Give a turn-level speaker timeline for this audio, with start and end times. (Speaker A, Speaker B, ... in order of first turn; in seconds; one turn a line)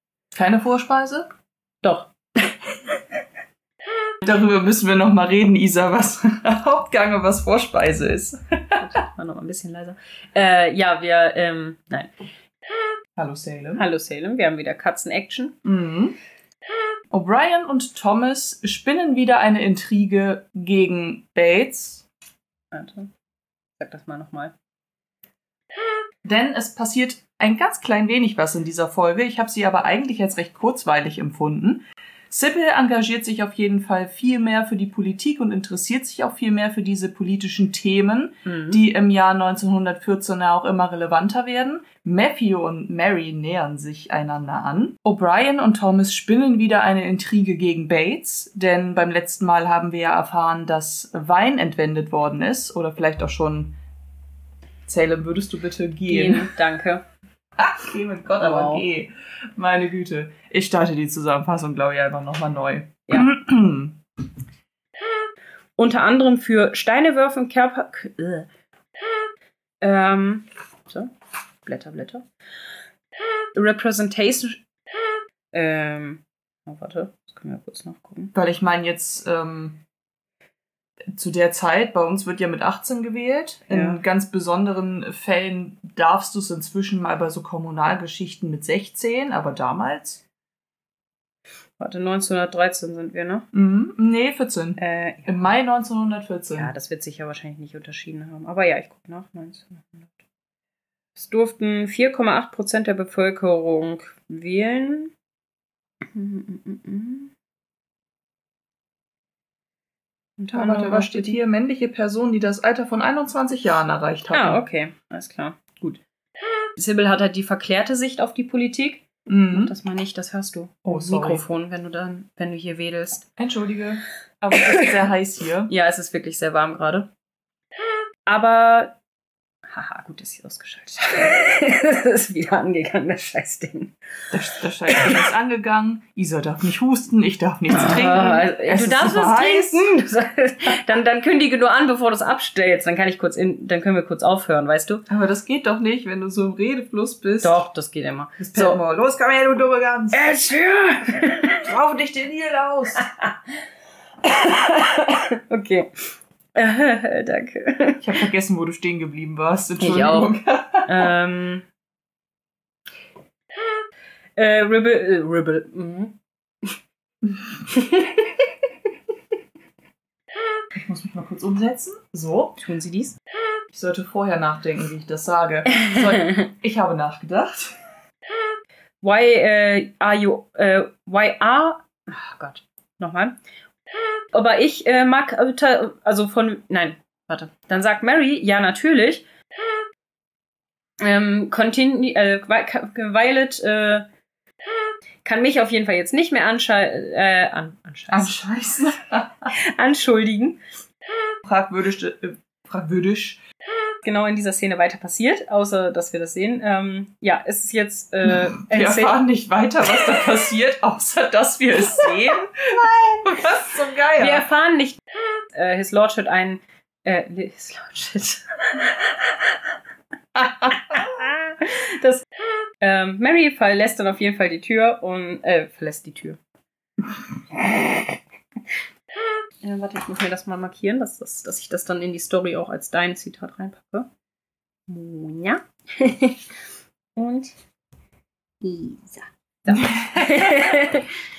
Speaker A: 0.3-1.3
Speaker B: 1.8-3.0
Speaker A: 4.2-8.8
Speaker B: 8.8-12.1
Speaker A: 13.2-13.8
Speaker B: 13.7-15.6
Speaker A: 15.6-16.1
Speaker A: 17.1-22.0
Speaker B: 22.7-23.1
Speaker B: 23.8-24.5
Speaker A: 26.2-53.8
Speaker B: 38.5-38.8
Speaker A: 54.9-56.5
Speaker B: 56.1-57.0
Speaker A: 57.6-64.0
Speaker B: 58.4-58.8
Speaker B: 63.1-63.3
Speaker B: 65.8-68.5
Speaker B: 69.8-71.1
Speaker B: 71.7-72.2
Speaker B: 73.5-74.6
Speaker B: 75.5-78.3
Speaker A: 78.3-79.8
Speaker A: 81.2-90.2
Speaker B: 83.7-84.0
Speaker B: 91.8-93.4
Speaker A: 93.5-96.7
Speaker B: 94.8-95.3
Speaker B: 96.5-100.2
Speaker B: 101.2-105.1
Speaker B: 106.1-107.3
Speaker B: 110.4-111.4
Speaker A: 110.5-114.6
Speaker B: 114.3-116.0
Speaker B: 116.8-123.3
Speaker A: 119.3-119.7
Speaker A: 120.8-121.4
Speaker A: 123.4-125.7
Speaker B: 125.7-127.1
Speaker B: 128.2-128.9
Speaker B: 129.7-133.9
Speaker A: 134.3-139.8
Speaker B: 134.8-135.2
Speaker B: 137.7-145.0
Speaker A: 145.1-147.6
Speaker B: 147.4-148.8
Speaker A: 148.4-150.2
Speaker B: 150.1-151.6
Speaker A: 151.5-153.0
Speaker B: 153.0-153.3
Speaker B: 154.2-155.9
Speaker B: 156.5-158.0
Speaker A: 158.0-161.1
Speaker B: 159.8-161.6
Speaker B: 164.3-166.1
Speaker B: 167.7-168.4
Speaker A: 170.7-172.6
Speaker B: 172.6-173.2
Speaker A: 173.7-177.7
Speaker B: 179.0-183.4
Speaker B: 184.3-189.2
Speaker B: 191.0-194.1
Speaker B: 195.2-198.4
Speaker A: 198.1-199.5
Speaker B: 199.5-200.6
Speaker A: 201.4-203.4
Speaker B: 204.0-209.2
Speaker A: 208.6-214.4
Speaker B: 214.2-215.0
Speaker B: 215.5-219.6
Speaker A: 220.3-221.0
Speaker B: 220.6-222.2
Speaker B: 222.8-226.4
Speaker B: 227.6-228.1
Speaker B: 229.6-234.1
Speaker B: 234.9-236.4
Speaker B: 237.2-237.5
Speaker B: 238.6-241.1
Speaker A: 239.9-240.2